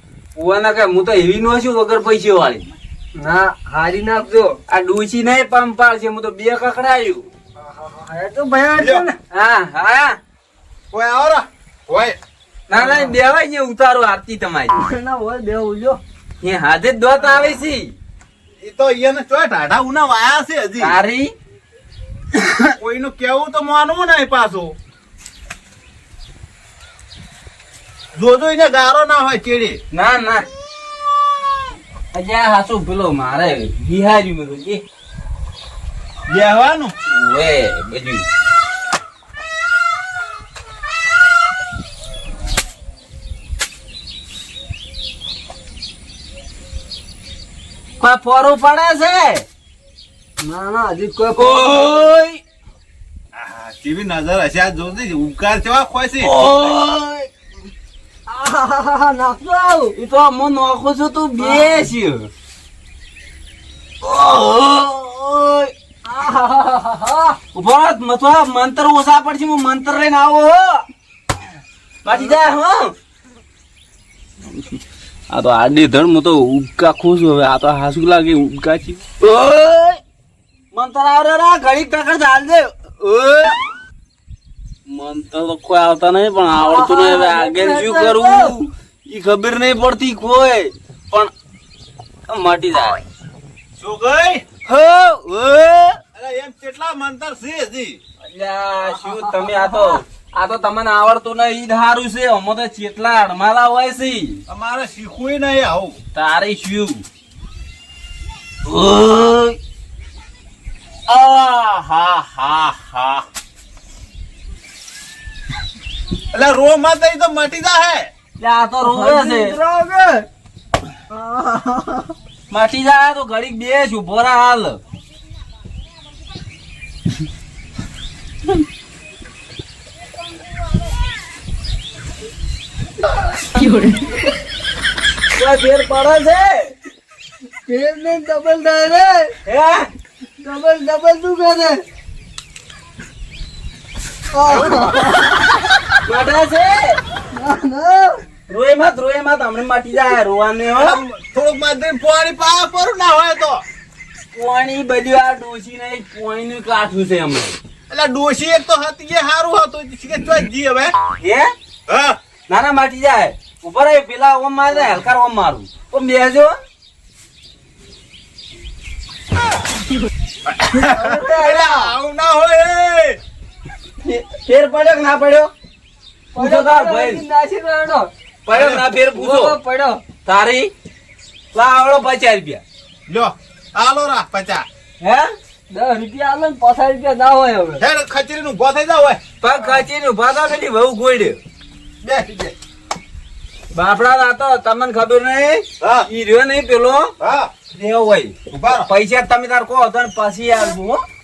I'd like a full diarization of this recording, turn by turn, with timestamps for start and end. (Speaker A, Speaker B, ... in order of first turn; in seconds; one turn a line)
Speaker A: 0.4-2.7
Speaker B: 3.2-4.6
Speaker A: 4.7-7.3
Speaker B: 7.6-9.2
Speaker C: 8.8-9.1
Speaker A: 9.3-10.2
Speaker C: 10.9-12.2
Speaker A: 12.7-14.8
Speaker B: 12.7-13.2
Speaker B: 14.8-16.0
Speaker A: 16.4-17.9
Speaker C: 18.6-21.0
Speaker A: 20.8-21.3
Speaker A: 22.3-22.7
Speaker C: 22.8-24.8
Speaker C: 28.1-29.8
Speaker A: 29.9-30.5
Speaker A: 32.1-34.8
Speaker C: 36.3-36.9
Speaker A: 37.1-38.3
Speaker A: 48.0-49.5
Speaker B: 50.4-51.8
Speaker A: 51.4-52.4
Speaker C: 53.4-56.4
Speaker A: 56.2-57.3
Speaker B: 58.3-59.9
Speaker A: 59.9-62.3
Speaker B: 61.4-61.8
Speaker A: 64.0-65.7
Speaker B: 66.1-67.4
Speaker A: 67.5-70.9
Speaker A: 72.0-72.9
Speaker A: 75.3-80.0
Speaker A: 80.7-83.6
Speaker A: 84.9-91.3
Speaker B: 86.5-88.5
Speaker A: 92.3-93.0
Speaker C: 93.8-94.5
Speaker A: 94.7-96.0
Speaker C: 96.2-98.0
Speaker A: 98.2-104.4
Speaker B: 99.1-99.9
Speaker C: 104.5-106.0
Speaker A: 106.1-107.0
Speaker A: 108.6-109.6
Speaker A: 111.1-113.2
Speaker C: 116.3-118.1
Speaker A: 118.4-119.6
Speaker B: 118.8-120.3
Speaker B: 121.1-122.1
Speaker A: 122.5-124.8
Speaker A: 135.3-136.8
Speaker B: 137.7-139.3
Speaker A: 139.4-139.9
Speaker B: 140.4-141.8
Speaker B: 144.3-145.5
Speaker C: 144.5-145.3
Speaker A: 146.0-147.0
Speaker B: 147.3-148.3
Speaker A: 148.5-151.0
Speaker C: 150.8-153.6
Speaker A: 154.3-157.6
Speaker C: 157.9-160.9
Speaker A: 161.2-161.5
Speaker C: 161.9-162.2
Speaker A: 162.5-166.5
Speaker C: 170.5-173.2
Speaker B: 170.7-171.9
Speaker A: 174.0-175.5
Speaker A: 176.3-177.2
Speaker B: 176.3-178.1
Speaker A: 178.5-179.6
Speaker C: 178.6-178.8
Speaker B: 179.1-180.0
Speaker A: 180.2-180.7
Speaker A: 181.5-182.6
Speaker C: 183.1-184.7
Speaker A: 185.0-185.3
Speaker B: 185.7-187.8
Speaker C: 187.8-189.8
Speaker A: 189.4-191.4
Speaker C: 192.0-192.6
Speaker A: 193.7-197.1
Speaker C: 195.8-196.1
Speaker C: 197.2-197.5
Speaker A: 197.7-201.0
Speaker C: 198.5-198.9